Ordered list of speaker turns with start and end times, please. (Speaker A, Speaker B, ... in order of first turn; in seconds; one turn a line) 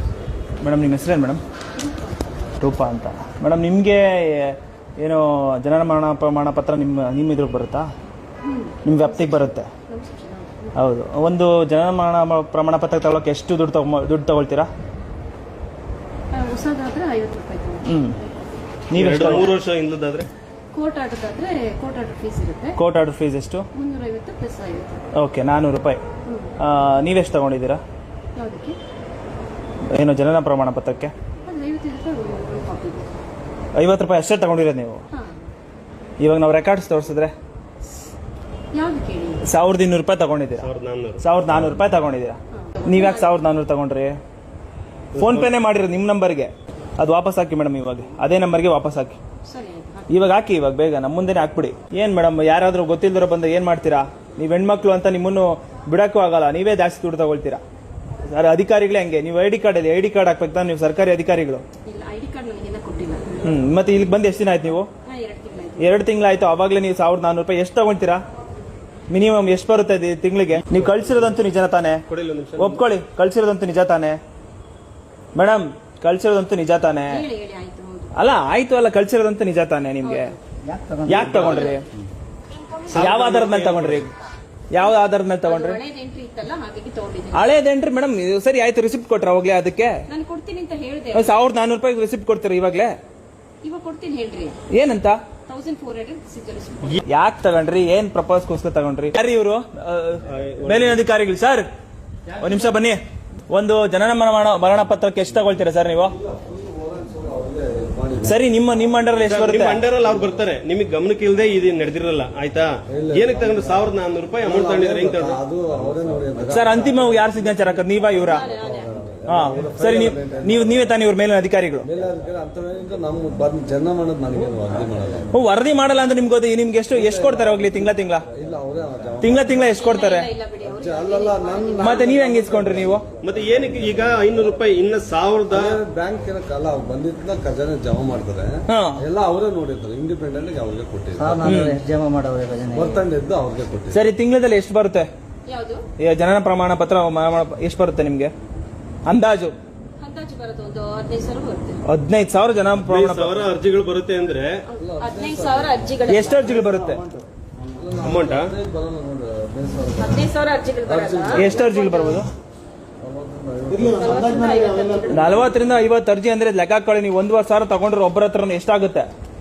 Speaker A: 0.6-1.4
Speaker B: 1.8-2.3
Speaker A: 2.6-7.9
Speaker B: 8.4-10.7
Speaker A: 8.8-9.7
Speaker A: 10.8-14.7
Speaker B: 16.3-17.9
Speaker A: 17.9-18.1
Speaker A: 18.9-19.5
Speaker C: 18.9-20.3
Speaker B: 20.7-22.8
Speaker A: 22.8-23.6
Speaker B: 23.7-25.0
Speaker A: 25.1-26.0
Speaker B: 26.2-26.5
Speaker A: 26.6-27.8
Speaker B: 28.4-28.8
Speaker A: 29.9-31.1
Speaker B: 31.4-33.1
Speaker A: 33.8-35.0
Speaker A: 36.2-37.3
Speaker B: 38.7-39.4
Speaker A: 39.4-40.7
Speaker C: 40.6-41.2
Speaker A: 41.2-44.2
Speaker B: 42.5-43.3
Speaker C: 45.1-45.5
Speaker A: 45.2-49.2
Speaker B: 49.5-50.1
Speaker A: 50.1-57.6
Speaker A: 58.3-61.6
Speaker B: 61.9-63.6
Speaker A: 63.4-64.9
Speaker B: 65.0-66.0
Speaker A: 65.8-68.2
Speaker A: 69.1-72.0
Speaker C: 70.7-71.2
Speaker C: 72.1-72.8
Speaker A: 72.6-74.2
Speaker A: 75.3-77.2
Speaker B: 77.1-78.1
Speaker A: 78.1-80.3
Speaker B: 80.0-80.4
Speaker D: 80.7-81.3
Speaker A: 81.0-81.8
Speaker B: 81.2-81.8
Speaker C: 82.9-84.0
Speaker A: 82.9-84.1
Speaker A: 84.7-85.8
Speaker B: 84.8-87.5
Speaker A: 87.3-90.0
Speaker B: 90.1-91.4
Speaker A: 91.1-93.0
Speaker B: 93.6-94.6
Speaker A: 94.7-95.2
Speaker B: 95.5-97.0
Speaker A: 97.0-101.7
Speaker C: 100.2-101.0
Speaker A: 102.4-103.0
Speaker A: 103.5-106.1
Speaker E: 106.2-108.4
Speaker A: 108.2-109.8
Speaker C: 109.2-115.4
Speaker E: 112.9-113.8
Speaker E: 114.4-120.9
Speaker A: 116.5-118.5
Speaker B: 118.1-118.9
Speaker A: 119.3-121.9
Speaker E: 121.8-125.3
Speaker A: 125.3-128.2
Speaker E: 126.9-129.7
Speaker A: 129.2-130.3
Speaker B: 129.7-132.1
Speaker E: 130.6-133.1
Speaker A: 131.8-133.0
Speaker C: 133.2-135.8
Speaker E: 135.5-141.6
Speaker A: 138.7-139.0
Speaker D: 141.2-142.9
Speaker A: 141.4-141.8
Speaker E: 142.7-144.0
Speaker A: 143.9-145.1
Speaker B: 145.5-145.8
Speaker A: 146.0-148.3
Speaker A: 149.1-149.5
Speaker B: 150.0-151.8
Speaker A: 151.8-153.5
Speaker C: 152.8-154.6
Speaker B: 154.7-156.6
Speaker E: 154.8-155.9
Speaker A: 156.1-157.0
Speaker E: 157.7-160.2
Speaker C: 158.0-158.5
Speaker B: 160.0-162.2
Speaker E: 160.8-161.5
Speaker A: 161.3-162.3
Speaker E: 163.0-164.6
Speaker D: 163.7-164.9
Speaker B: 163.9-165.5
Speaker A: 165.1-169.1